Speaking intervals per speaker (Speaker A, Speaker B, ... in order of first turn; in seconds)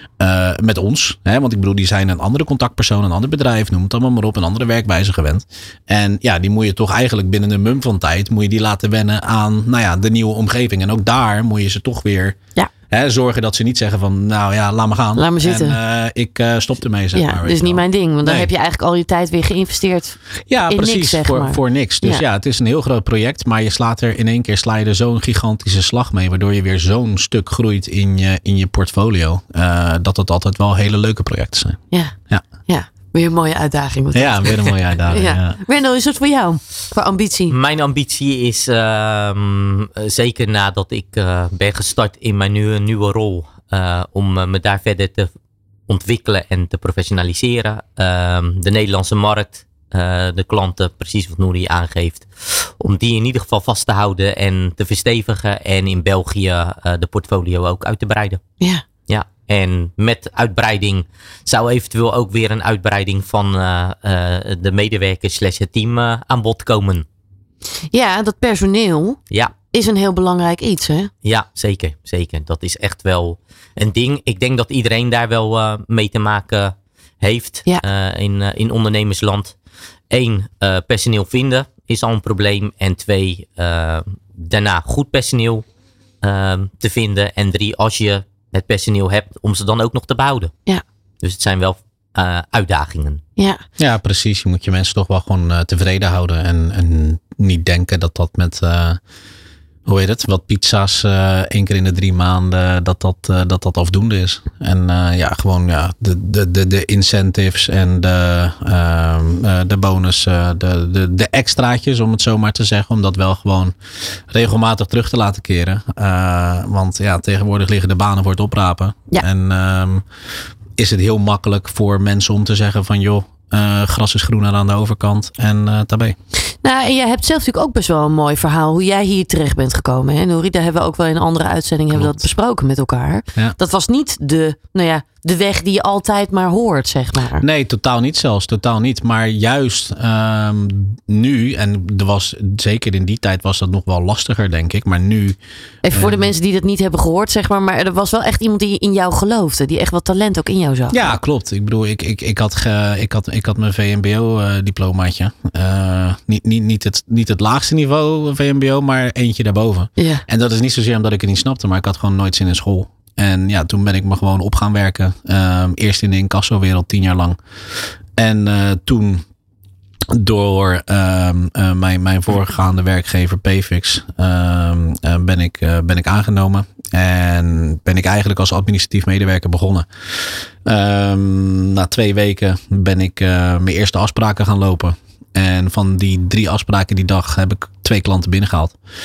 Speaker A: 0.2-12.4, 12.9-18.5, 20.5-32.4, 34.1-35.6, 93.8-99.0, 99.9-113.8, 114.3-120.0, 120.8-126.2, 131.9-132.2, 137.4-145.4, 145.9-146.3, 150.9-167.4, 168.2-169.2, 170.1-188.8
Speaker B: 15.2-15.8, 17.1-20.2, 20.7-22.2, 32.7-37.5, 67.9-69.2, 69.7-71.1, 126.6-137.4, 145.8-151.2, 160.0-160.2
Speaker C: 37.5-45.3, 45.9-58.4, 59.1-67.1, 71.2-79.5, 80.1-85.7, 86.2-90.5, 91.2-93.2